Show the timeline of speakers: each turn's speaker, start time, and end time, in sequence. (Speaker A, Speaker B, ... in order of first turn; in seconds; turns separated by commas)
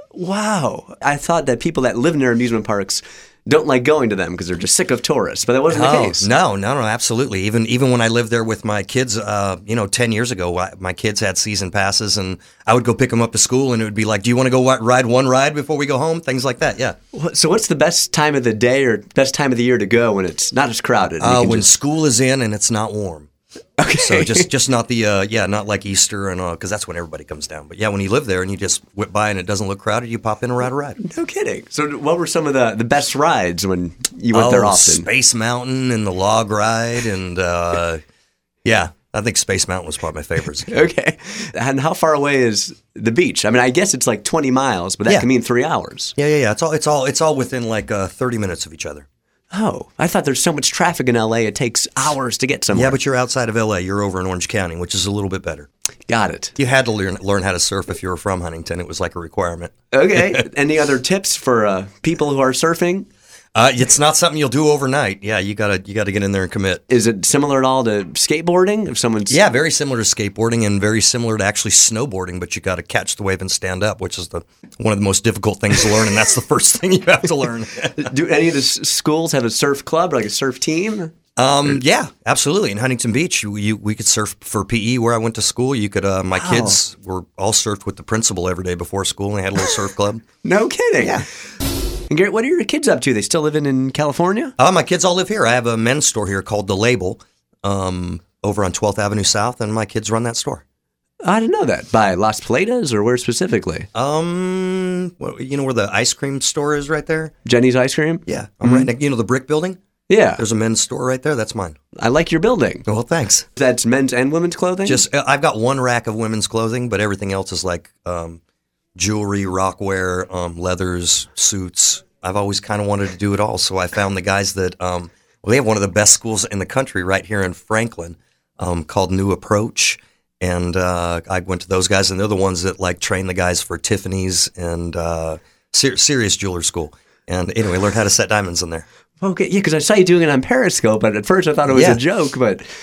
Speaker A: 0.1-6.3, Speaker B: 5.7-17.0, Speaker A: 17.1-21.7, Speaker B: 21.2-23.3, Speaker A: 23.8-24.5, Speaker B: 24.0-31.0, Speaker A: 31.0-35.1, Speaker B: 34.3-38.0, Speaker B: 38.6-40.9, Speaker A: 40.7-46.1, Speaker B: 46.2-49.1, Speaker A: 49.5-53.0, Speaker B: 52.7-55.7, Speaker A: 56.1-56.5, Speaker B: 56.6-60.4, Speaker A: 59.9-63.1, Speaker B: 63.5-66.8, Speaker A: 66.9-69.4, Speaker B: 69.3-78.1, Speaker A: 78.0-81.1, Speaker B: 81.4-90.2, Speaker A: 86.3-86.8, Speaker A: 90.4-91.2, Speaker B: 91.0-91.2, Speaker A: 92.1-94.5, Speaker B: 94.6-100.6, Speaker A: 101.2-103.9, Speaker B: 103.9-107.3, Speaker A: 107.5-108.9, Speaker B: 108.3-109.8, Speaker A: 110.1-110.4, Speaker B: 110.4-111.8, Speaker A: 112.0-112.9, Speaker B: 112.9-113.5, Speaker A: 113.5-115.0, Speaker B: 114.9-118.4, Speaker B: 119.0-138.9, Speaker A: 139.2-142.6, Speaker B: 141.7-142.0